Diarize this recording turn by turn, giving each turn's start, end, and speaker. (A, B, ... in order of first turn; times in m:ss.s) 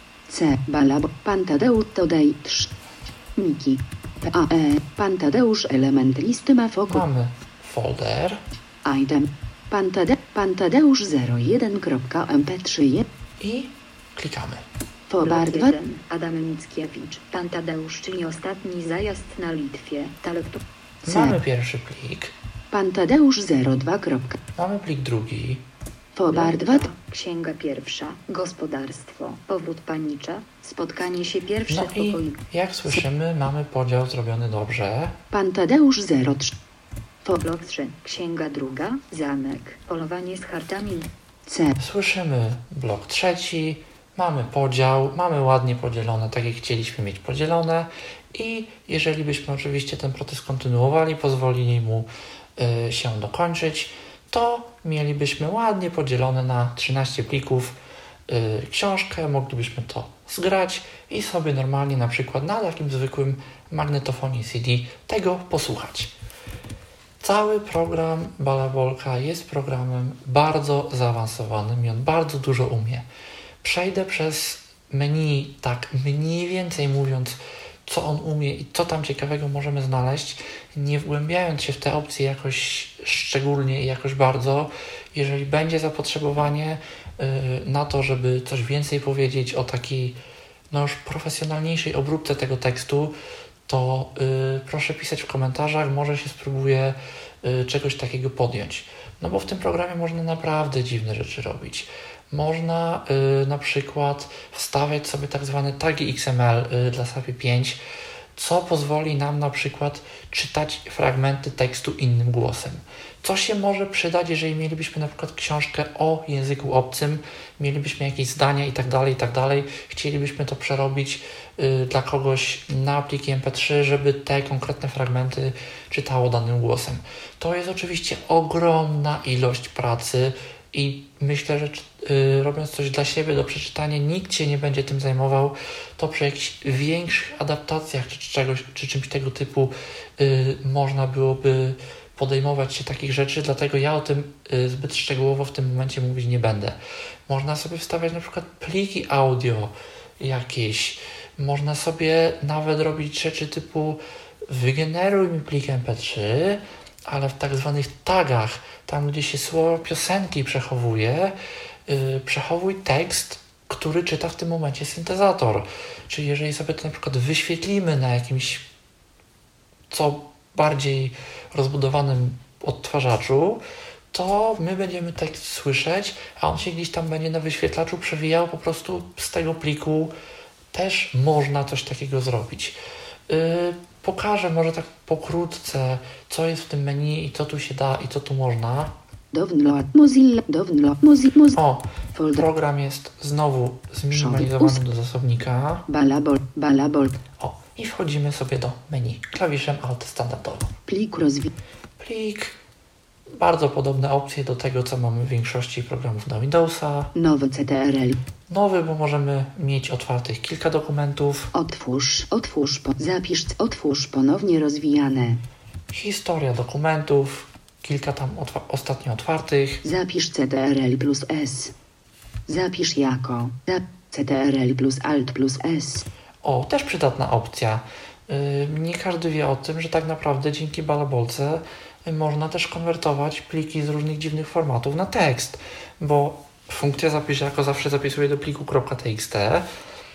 0:00.3-0:02.7 A
0:03.4-0:07.0 A
0:06.9-0:08.4 B
0:08.8-0:13.1 A
0:13.4-0:14.6 B
0:15.1-0:15.8 A
0:15.2-0:20.6 C
0:21.0-0:22.3 B
0:21.0-0:21.4 A
0:22.7-0:24.4 A
0:24.6-0:25.6 B
0:26.1-0:26.9 A
0:26.3-0:32.4 C
0:31.7-0:35.2 B
0:35.3-0:36.6 A
0:37.2-0:41.1 C
0:41.5-0:41.7 A
0:41.8-0:57.8 B
0:58.3-1:06.1 B
1:07.2-1:13.0 B
1:13.6-1:30.2 B
1:30.7-1:33.2 B
1:33.7-1:47.8 B
1:48.3-2:41.4 B
2:41.9-2:48.7 B
2:49.9-3:00.1 B
3:00.7-3:08.9 B
3:09.3-3:11.6 A
3:11.5-3:15.9 B
3:12.1-3:12.4 A
3:14.1-3:14.8 A
3:15.9-3:17.2 A
3:17.4-3:20.7 B
3:20.9-3:21.5 A
3:22.0-3:22.6 B
3:23.3-3:27.1 B
3:27.1-3:28.2 A
3:28.5-3:31.5 B
3:31.5-3:35.4 A
3:35.9-3:39.8 B
3:39.8-3:41.7 A
3:42.5-3:46.0 A
3:46.4-3:59.7 B